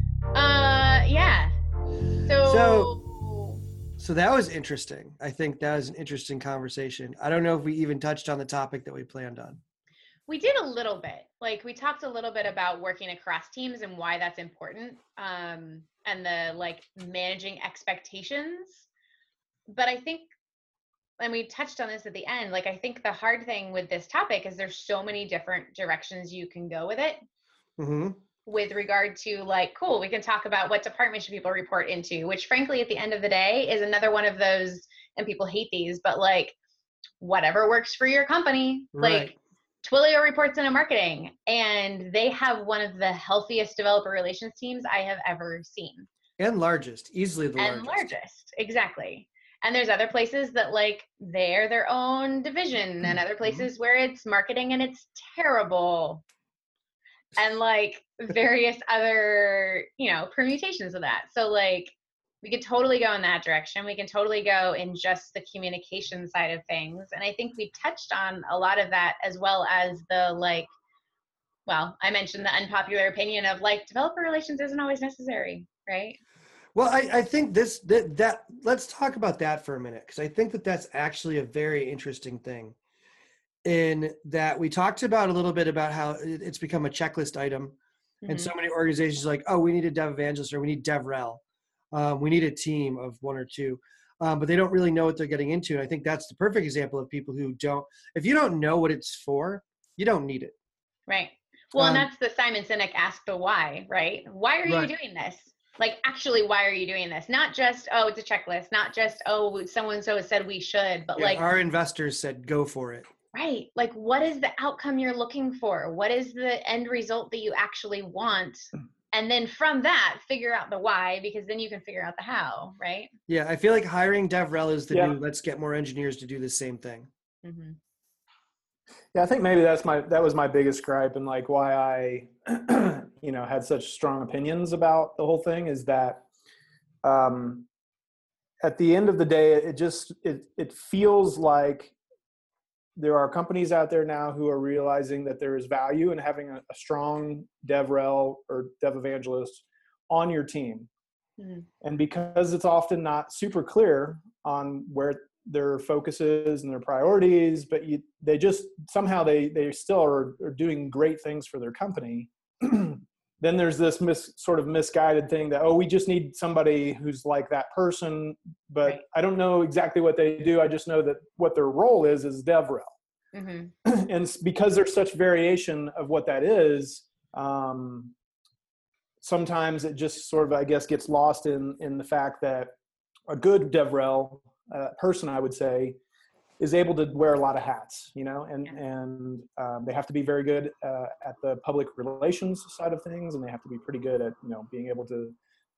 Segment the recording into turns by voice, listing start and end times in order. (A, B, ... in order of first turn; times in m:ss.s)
0:00.3-0:01.5 A
0:02.2-0:03.6 A
0:02.4-0:02.9 B
0:04.0-0:09.6 B
0:10.3-0:18.9 A
0:19.7-0:20.3 A
0:21.2-0:27.2 A
0:27.8-0:28.2 B
0:28.4-0:36.6 A
0:37.2-0:46.1 A
0:39.0-0:39.3 B
0:46.4-0:48.1 B
0:47.6-0:56.2 A
0:57.4-1:10.7 A
1:11.7-1:16.2 A
1:16.7-1:22.8 B
1:23.6-1:40.5 B
1:28.2-1:28.5 A
1:41.1-1:51.4 A
1:41.8-1:42.1 B
1:44.6-1:44.9 B
1:51.2-1:53.1 B
1:53.3-2:03.1 A
2:03.3-2:07.1 B
2:04.9-2:05.1 C
2:07.4-2:07.8 A
2:09.1-2:16.2 C
2:17.0-2:17.7 C
2:18.6-2:21.9 C
2:23.0-2:30.9 C
2:31.4-2:31.6 A
2:31.8-2:52.9 C
2:53.3-2:53.7 A
2:53.8-2:58.1 C
2:59.2-3:02.7 C
3:03.3-3:06.0 C
3:06.6-3:15.4 C